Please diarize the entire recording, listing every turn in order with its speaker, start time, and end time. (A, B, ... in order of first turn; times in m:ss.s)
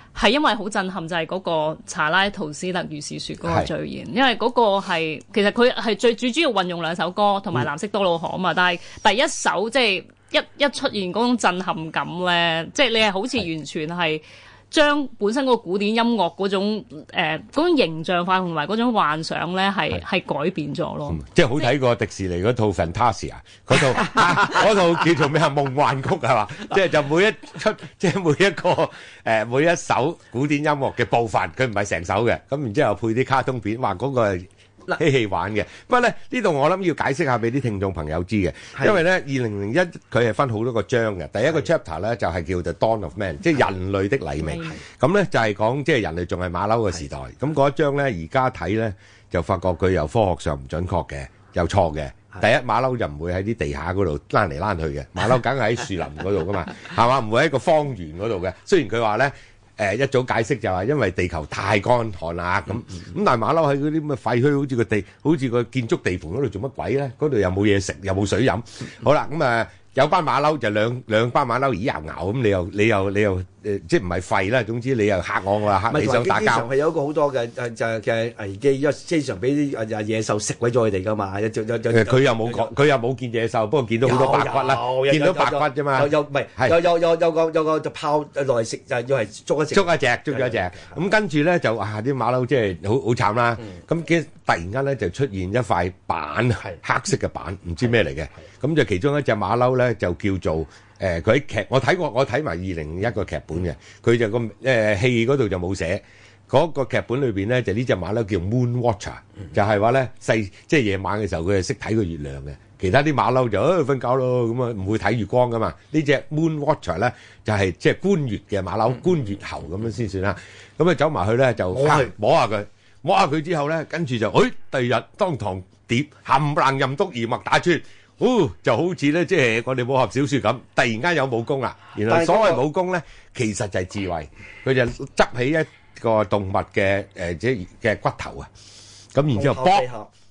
0:00.2-0:21.2 A
0:03.4-0:03.7 B
0:21.1-1:16.7 B
1:15.9-1:22.7 C
1:21.9-1:26.8 B
1:24.0-1:31.0 C
1:29.7-2:18.5 B
2:01.7-2:02.1 C
2:12.1-2:12.6 C
2:19.1-2:19.9 B
2:19.3-2:20.1 C